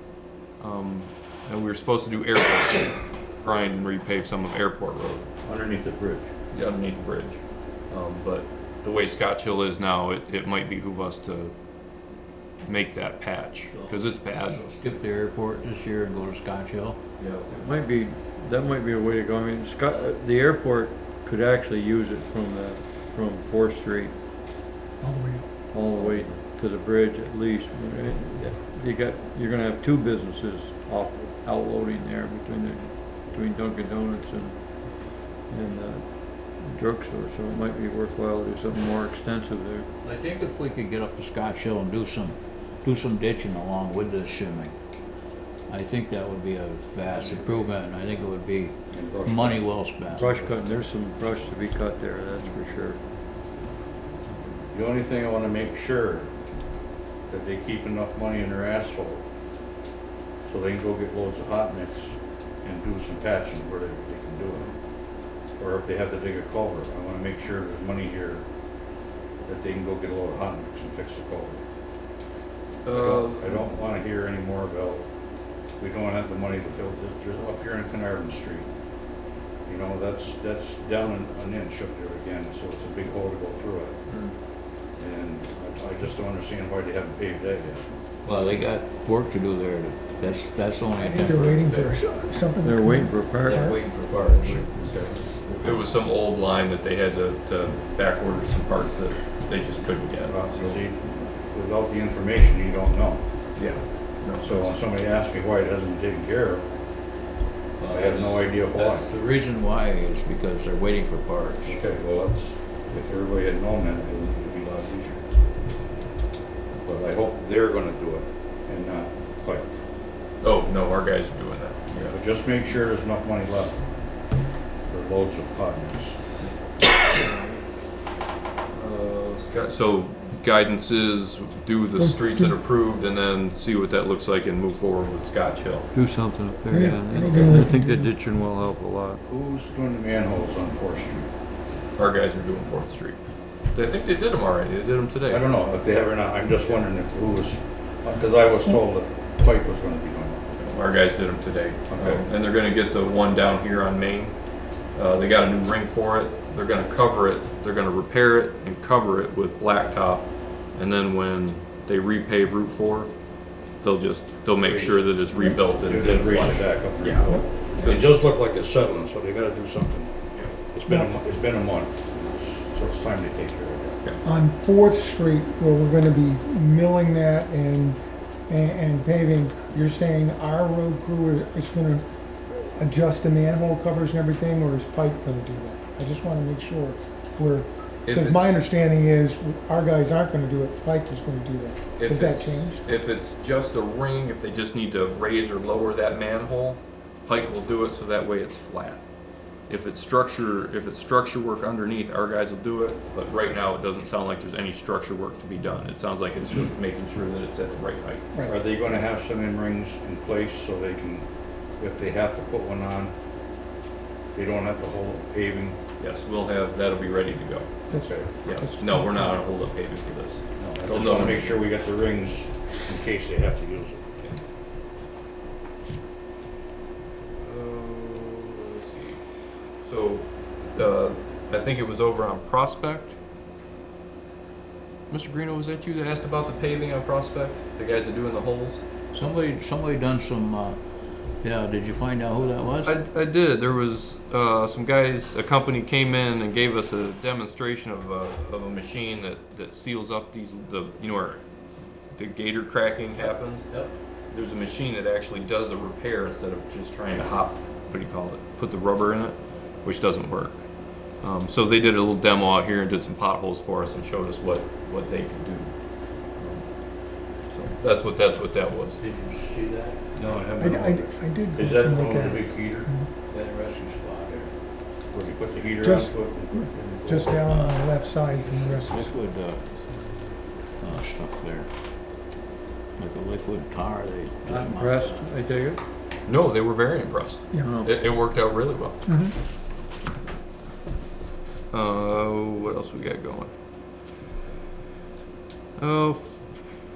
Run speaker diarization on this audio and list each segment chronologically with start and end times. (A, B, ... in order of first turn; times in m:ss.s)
0:00.6-0:02.9 A
0:03.4-0:05.3 A
0:05.4-0:06.3 B
0:06.5-0:11.5 A
0:12.6-0:14.6 A
0:13.6-0:17.0 C
0:17.2-0:17.8 A
0:17.5-0:24.1 D
0:25.0-0:25.5 E
0:25.7-0:34.6 D
0:35.5-0:39.9 D
0:40.0-0:44.7 C
0:45.7-0:48.7 C
0:48.9-0:49.6 B
0:49.2-0:50.6 C
0:50.2-0:53.0 D
0:54.7-0:56.3 B
0:57.3-0:59.2 B
1:00.4-1:04.7 B
1:05.6-1:08.4 B
1:09.4-1:11.6 B
1:12.8-1:13.7 A
1:12.9-1:15.0 B
1:15.8-1:18.7 B
1:19.6-1:24.0 B
1:25.0-1:27.9 B
1:28.2-1:31.7 C
1:31.0-1:33.7 E
1:32.6-1:33.7 D
1:33.4-1:35.8 C
1:35.5-1:40.8 A
1:40.3-1:43.2 B
1:43.6-1:44.8 A
1:44.4-1:46.7 B
1:47.8-1:51.8 C
1:47.9-1:49.1 B
1:51.6-1:55.2 B
1:56.8-1:59.7 B
2:00.4-2:02.2 A
2:02.0-2:03.8 B
2:04.9-2:06.2 B
2:07.2-2:07.6 A
2:08.7-2:15.9 A
2:12.0-2:12.5 E
2:15.9-2:19.2 D
2:16.7-2:18.1 E
2:19.2-2:21.3 B
2:22.0-2:23.2 A
2:23.7-2:25.5 A
2:25.3-2:30.4 B
2:30.5-2:34.4 A
2:31.9-2:32.3 B
2:35.0-2:43.1 A
2:43.8-2:48.1 A
2:44.6-2:45.2 B
2:45.7-2:50.1 B
2:50.7-2:54.0 B
2:50.8-2:51.1 E
2:54.2-3:12.9 E
3:08.0-3:08.6 A
3:12.0-3:19.0 A
3:19.7-3:28.2 A
3:28.3-3:28.7 E
3:28.4-3:31.2 B
3:31.8-3:33.1 B
3:34.3-3:35.8 B
3:36.0-3:41.6 A
3:37.9-3:39.4 E
3:37.9-3:38.4 B
3:40.6-3:44.3 B
3:47.4-3:49.2 A
3:49.8-3:53.2 A
3:55.1-3:58.8 A
3:59.1-4:00.8 C
4:01.4-4:03.0 C
4:02.8-4:11.4 A
4:12.1-4:13.6 A
4:13.7-4:13.9 C
4:14.3-4:20.6 A
4:21.2-4:25.7 A
4:26.4-4:26.6 A
4:27.5-4:29.0 A
4:29.0-4:30.3 C
4:30.1-4:32.9 B
4:30.6-4:33.1 E
4:33.3-4:34.5 C
4:35.1-4:37.4 B
4:35.8-4:39.1 E
4:37.4-4:37.8 C
4:38.4-4:39.6 C
4:40.8-4:41.7 C
4:43.0-4:45.3 C
4:44.4-4:45.8 D
4:46.3-4:49.0 A
4:47.6-4:47.9 C
4:49.1-4:49.3 E
4:51.7-4:53.5 A
4:55.8-4:56.4 A